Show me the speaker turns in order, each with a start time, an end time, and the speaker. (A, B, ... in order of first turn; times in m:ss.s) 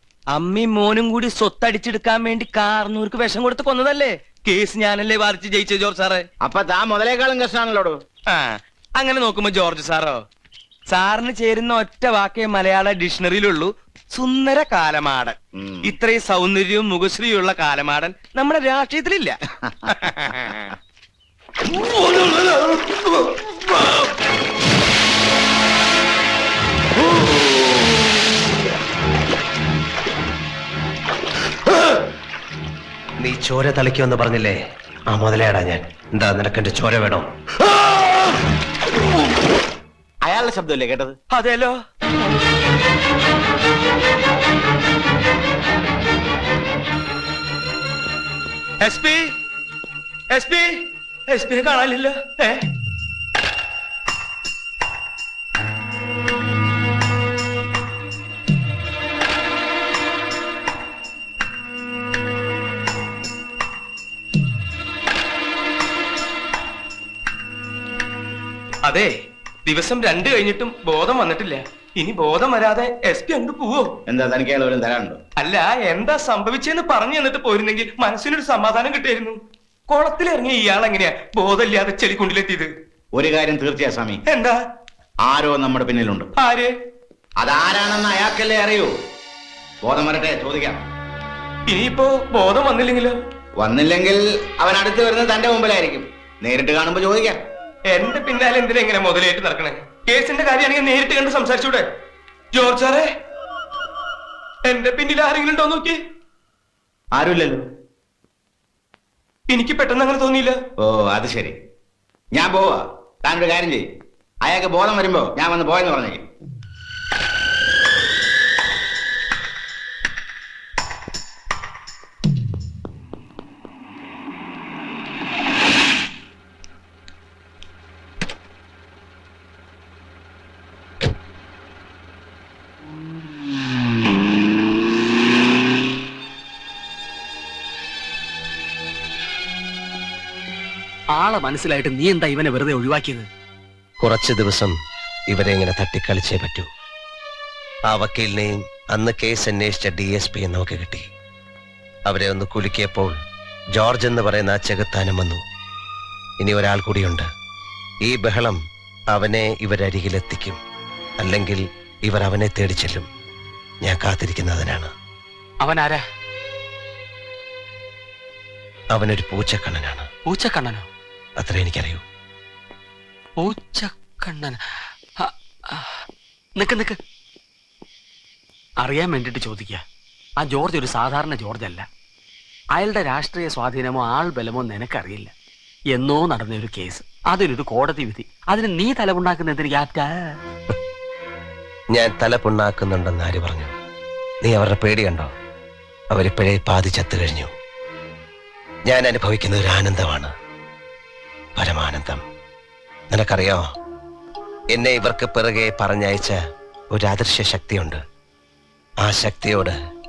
0:00.3-0:06.2 A
0:06.4-0:07.9 B
0:08.3-0:10.2 A
0:10.9-0:20.5 A
0:15.6-0:15.9 B
0:22.2-0:23.2 A
0:33.2-0:34.6 C
0:35.1-0:37.3 C
0:40.2-0:41.1 B
0:41.3-0:41.8 A
0:48.8-0:49.3 A
0:50.3-0:52.7 A
1:08.8-1:09.1 A
1:09.6-1:13.9 A
1:14.1-1:15.2 B
1:15.4-1:22.7 A
1:23.1-1:24.2 B
1:24.2-1:24.6 A
1:25.2-1:26.3 B
1:26.4-1:26.7 A
1:27.4-1:28.9 B
1:29.8-1:30.8 B
1:31.7-1:33.1 A
1:33.6-1:37.4 B
1:37.9-1:41.8 A
1:42.5-1:43.1 A
1:44.6-1:46.0 A
1:47.1-1:47.6 B
1:49.5-1:50.6 A
1:50.8-1:51.5 B
1:52.3-1:53.8 B
1:54.4-1:56.2 B
2:21.1-2:23.3 D
2:24.0-2:24.7 C
2:25.3-2:26.7 C
2:27.9-2:31.0 C
2:32.1-2:33.1 C
2:33.7-2:35.4 C
2:36.4-2:37.2 C
2:38.0-2:38.6 C
2:39.1-2:40.6 C
2:41.2-2:43.0 C
2:43.8-2:44.9 C
2:45.6-2:46.0 D
2:48.9-2:50.0 C
2:50.2-2:50.9 D
2:51.4-2:52.0 C
2:53.4-2:54.6 D
2:55.2-2:56.0 D
2:56.6-2:57.0 D
2:58.8-2:59.8 D
3:00.4-3:01.9 D
3:02.7-3:05.3 D
3:05.9-3:10.4 D
3:11.9-3:13.7 C
3:14.4-3:15.3 C
3:16.1-3:17.5 C
3:18.9-3:20.3 C
3:21.6-3:22.2 C
3:23.1-3:23.7 C
3:24.7-3:26.4 C
3:26.9-3:28.0 C
3:29.0-3:29.8 C